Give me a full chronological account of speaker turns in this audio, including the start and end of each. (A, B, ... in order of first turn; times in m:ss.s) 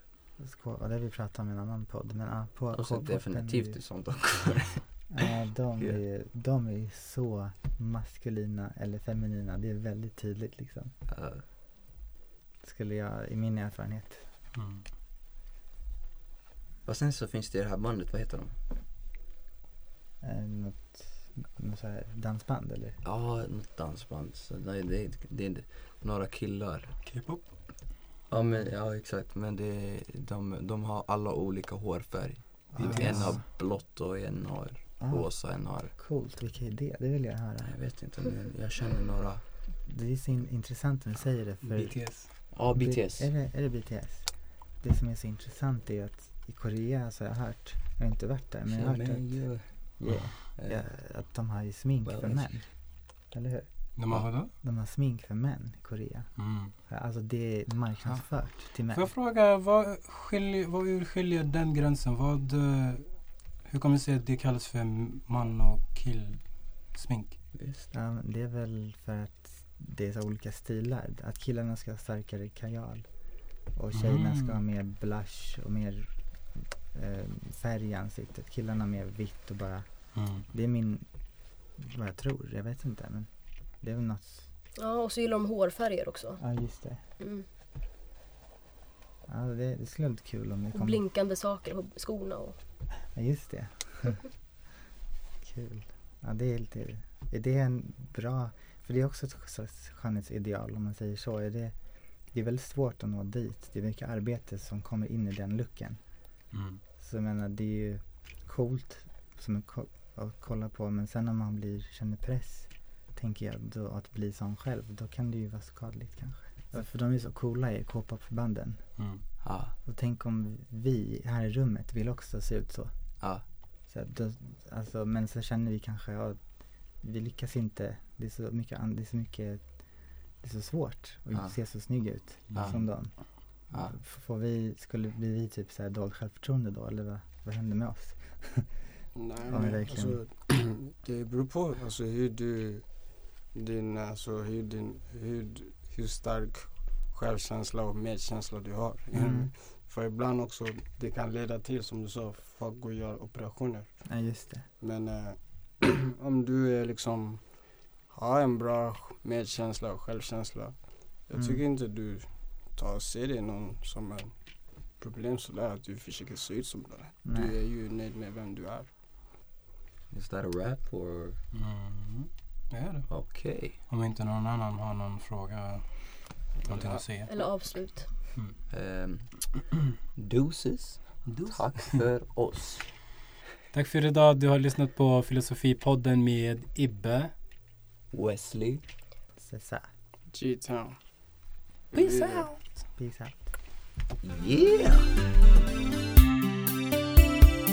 0:00.4-0:04.1 A
0:02.7-0:05.1 B
0:05.1-0:10.9 A
0:11.1-0:11.4 B
0:12.6-0:14.3 A
0:14.5-0:14.8 C
0:16.8-0:18.6 B
0:20.2-0:23.0 A
0:23.0-0:27.5 B
0:27.0-0:27.8 C
0:28.3-0:36.0 B
0:28.3-0:28.7 A
0:32.7-0:33.4 A
0:32.8-0:33.4 C
0:35.0-0:37.8 A
0:37.6-0:39.5 B
0:39.8-0:59.1 A
0:41.6-0:42.3 C
0:42.5-0:43.3 B
0:48.7-0:51.2 B
0:52.0-0:52.7 B
0:54.0-0:54.5 C
0:56.4-0:56.7 C
0:58.3-1:07.4 C
1:07.5-1:07.9 B
1:07.9-1:24.5 A
1:13.9-1:14.6 C
1:20.2-1:20.5 C
1:24.8-1:27.5 D
1:26.4-1:27.0 A
1:29.3-1:31.1 A
1:30.7-1:32.6 D
1:33.1-1:34.4 A
1:35.4-1:46.3 A
1:46.5-1:46.8 C
1:47.0-2:18.8 A
1:59.0-1:59.2 C
1:59.4-1:59.7 B
2:03.2-2:03.4 B
2:11.3-2:14.0 B
2:12.5-2:12.8 C
2:19.1-2:34.3 E
2:19.4-2:20.2 A
2:29.1-2:29.5 A
2:34.0-2:34.7 A
2:34.8-2:49.0 E
2:41.4-2:41.6 A
2:47.2-2:47.6 A
2:50.1-2:51.4 B
2:51.5-2:58.6 C
2:53.1-2:53.8 B
2:56.6-2:57.0 E
2:57.3-2:58.2 D
2:58.7-3:02.9 B
3:01.2-3:02.0 C
3:03.7-3:07.3 C
3:08.1-3:08.8 B
3:09.4-3:09.9 A
3:10.3-3:11.3 E
3:11.9-3:12.6 E
3:12.4-3:12.7 C
3:12.6-3:13.5 A
3:14.2-3:15.3 B